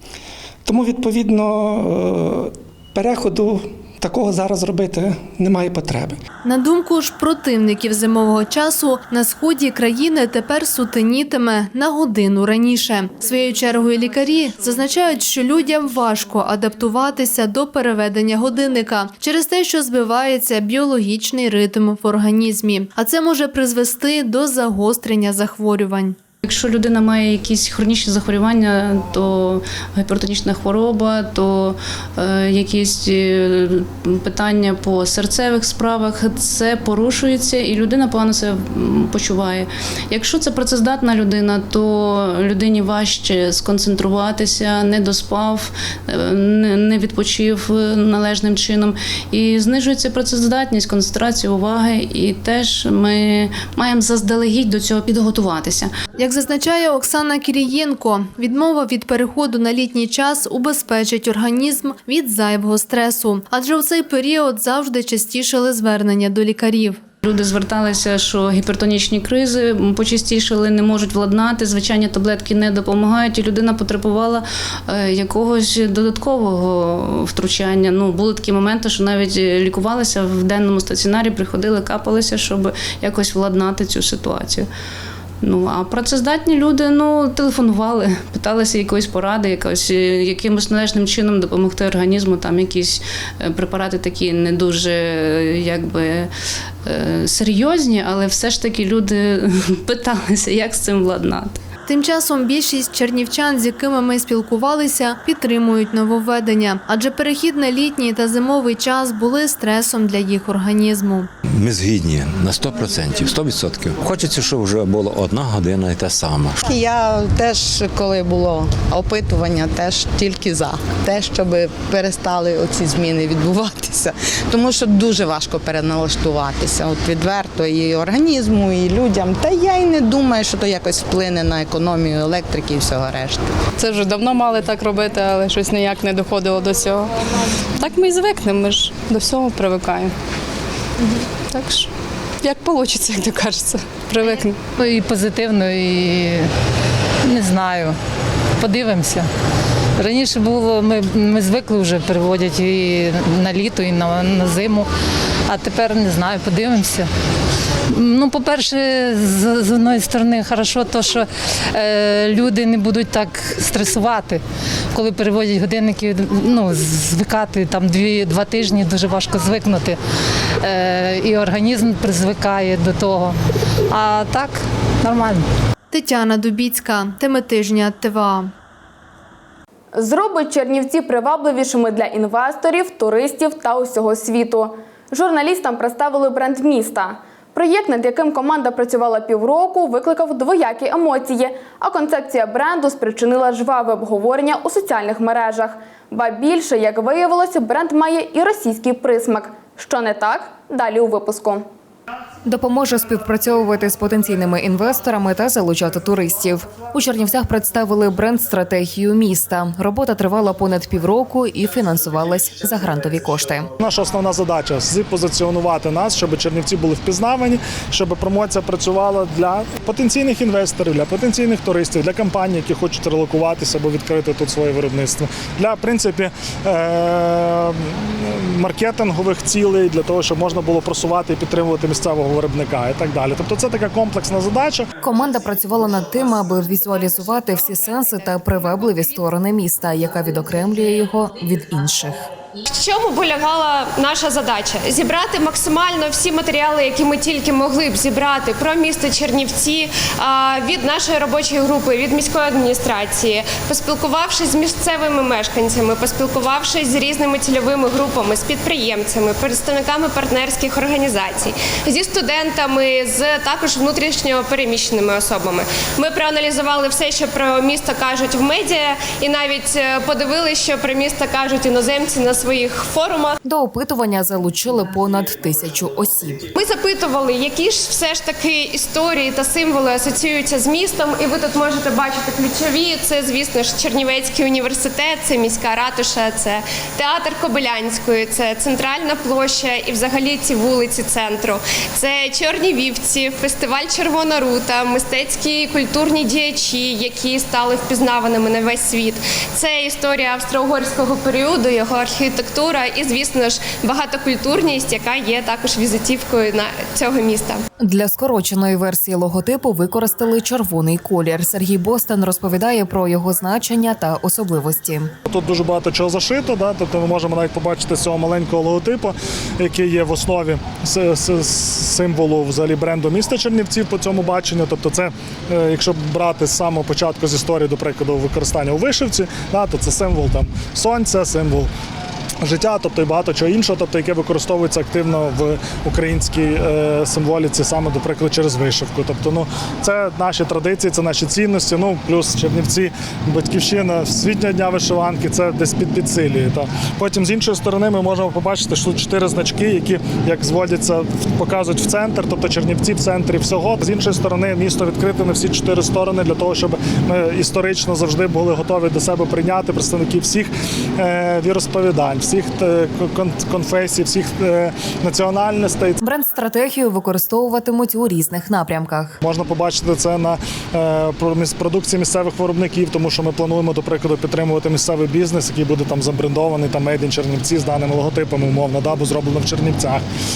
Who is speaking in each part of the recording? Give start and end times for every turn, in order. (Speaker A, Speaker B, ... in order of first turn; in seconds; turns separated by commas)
Speaker A: 0.6-6.2, Speaker B: 6.4-26.2, Speaker C: 26.4-55.9, Speaker B: 56.2-67.0, Speaker C: 67.2-84.7, Speaker C: 85.4-96.3, Speaker C: 96.8-101.6, Speaker B: 101.9-111.3, Speaker D: 111.5-116.7, Speaker E: 125.2-125.7, Speaker E: 126.4-126.8, Speaker E: 130.4-133.3, Speaker F: 133.7-137.1, Speaker F: 137.8-140.1, Speaker F: 141.0-141.9, Speaker F: 142.4-144.6, Speaker G: 144.8-146.5, Speaker G: 147.2-147.9, Speaker G: 148.6-149.3, Speaker G: 150.0-154.9, Speaker G: 155.5-157.1, Speaker G: 157.9-170.0, Speaker G: 170.6-173.4, Speaker G: 173.9-175.4, Speaker B: 175.9-178.5, Speaker H: 179.9-201.6, Speaker I: 202.4-213.7, Speaker J: 213.8-234.9, Speaker I: 235.0-242.3, Speaker K: 242.7-273.3, Speaker I: 273.4-276.4, Speaker K: 276.5-307.6, Speaker I: 307.8-315.1, Speaker J: 315.3-331.7, Speaker J: 332.4-366.0, Speaker I: 366.0-369.2, Speaker J: 369.2-380.0